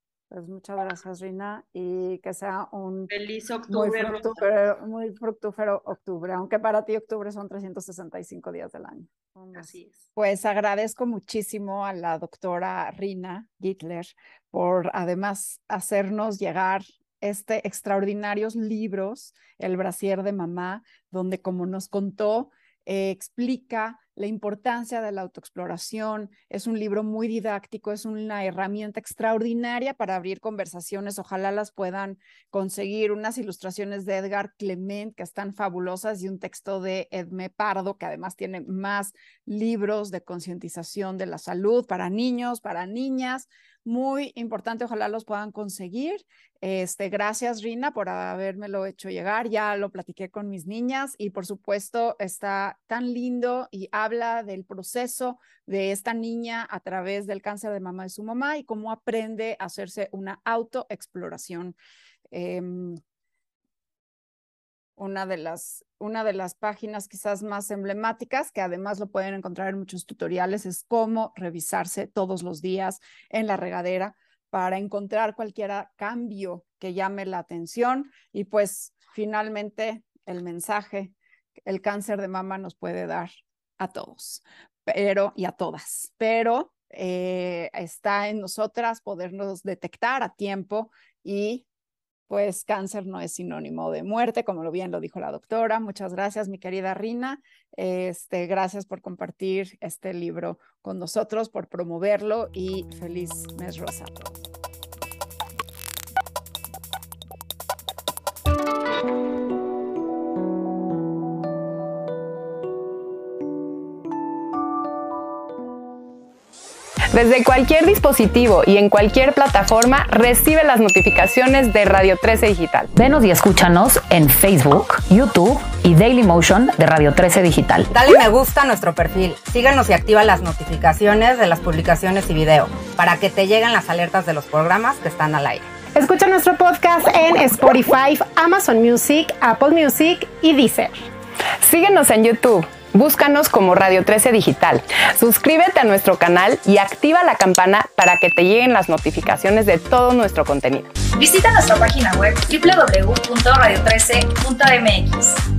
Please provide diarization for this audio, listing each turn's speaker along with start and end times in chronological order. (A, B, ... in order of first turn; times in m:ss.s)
0:00.3-0:03.1 A
0:03.1-0:04.4 B
0:03.7-1:01.8 A
0:09.5-0:10.0 B
1:02.3-1:03.0 A
1:05.0-1:31.6 A
1:32.3-1:44.4 A
1:57.1-2:02.9 C
2:02.9-2:07.9 D
2:07.9-2:15.7 E
2:15.9-2:21.1 F
2:21.6-2:30.9 C
2:31.1-2:35.4 G